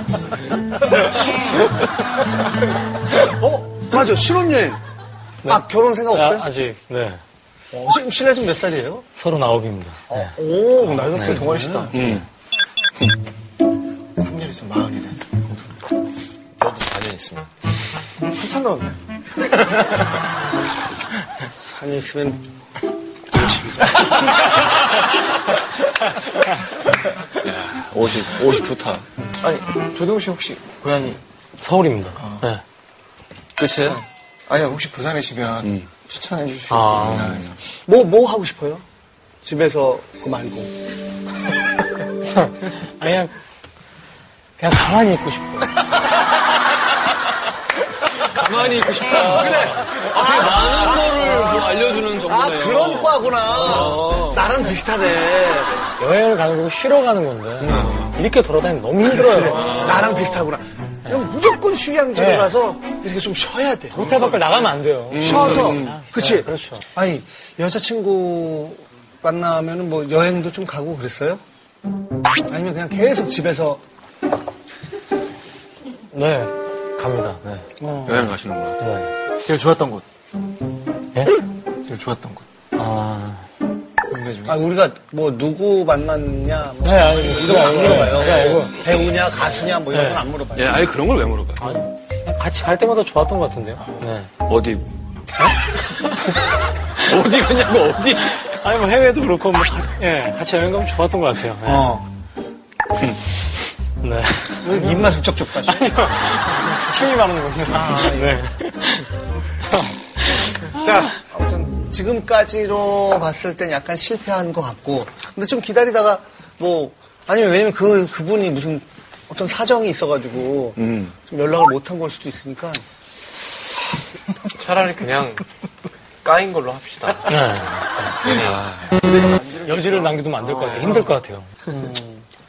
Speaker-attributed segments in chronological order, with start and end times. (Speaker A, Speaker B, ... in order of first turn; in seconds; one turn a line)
Speaker A: 3.2-4.8
Speaker B: 5.4-7.2
Speaker A: 5.4-6.5
Speaker A: 7.7-9.1
Speaker B: 9.1-10.3
Speaker A: 10.1-11.9
Speaker C: 10.9-12.2
Speaker B: 11.1-11.4
Speaker D: 11.9-12.2
Speaker C: 14.2-15.2
Speaker E: 16.6-17.5
Speaker A: 18.3-19.0
Speaker A: 21.6-22.4
Speaker A: 23.3-24.4
Speaker D: 27.4-29.0
Speaker C: 29.4-31.2
Speaker B: 31.6-32.6
Speaker C: 32.2-32.5
Speaker D: 33.6-34.0
Speaker C: 33.6-37.6
Speaker B: 36.7-37.4
Speaker A: 37.8-38.8
Speaker A: 39.4-40.7
Speaker B: 42.3-43.3
Speaker B: 44.6-45.7
Speaker D: 48.0-54.5
Speaker A: 49.1-55.9
Speaker B: 56.0-60.0
Speaker A: 57.6-58.1
Speaker D: 57.7-58.0
Speaker A: 59.1-64.5
Speaker D: 59.6-60.4
Speaker B: 62.1-62.5
Speaker B: 63.9-66.8
Speaker E: 64.0-64.6
Speaker D: 65.1-66.0
Speaker A: 65.2-71.4
Speaker A: 72.5-73.8
Speaker B: 76.1-77.6
Speaker A: 77.8-78.3
Speaker D: 78.0-78.8
Speaker B: 78.8-79.1
Speaker C: 79.4-80.0
Speaker C: 81.8-82.5
Speaker B: 82.8-83.4
Speaker C: 84.0-84.6
Speaker A: 84.5-90.9
Speaker B: 86.8-88.8
Speaker B: 89.9-90.2
Speaker D: 90.5-91.8
Speaker B: 91.6-94.3
Speaker D: 94.4-94.8
Speaker D: 96.0-96.4
Speaker B: 96.1-96.4
Speaker D: 97.0-98.5
Speaker B: 98.4-101.9
Speaker A: 101.6-102.1
Speaker B: 104.0-105.1
Speaker A: 104.6-106.1
Speaker B: 105.6-109.1
Speaker A: 107.7-108.4
Speaker B: 109.8-110.4
Speaker A: 110.7-122.8
Speaker D: 120.8-121.1
Speaker E: 124.6-125.4
Speaker E: 126.2-127.5
Speaker B: 127.3-128.1
Speaker E: 128.0-128.7
Speaker D: 128.2-129.3
Speaker C: 129.1-130.7
Speaker B: 129.6-131.5
Speaker E: 130.5-131.0
Speaker A: 130.6-131.1
Speaker A: 131.7-132.2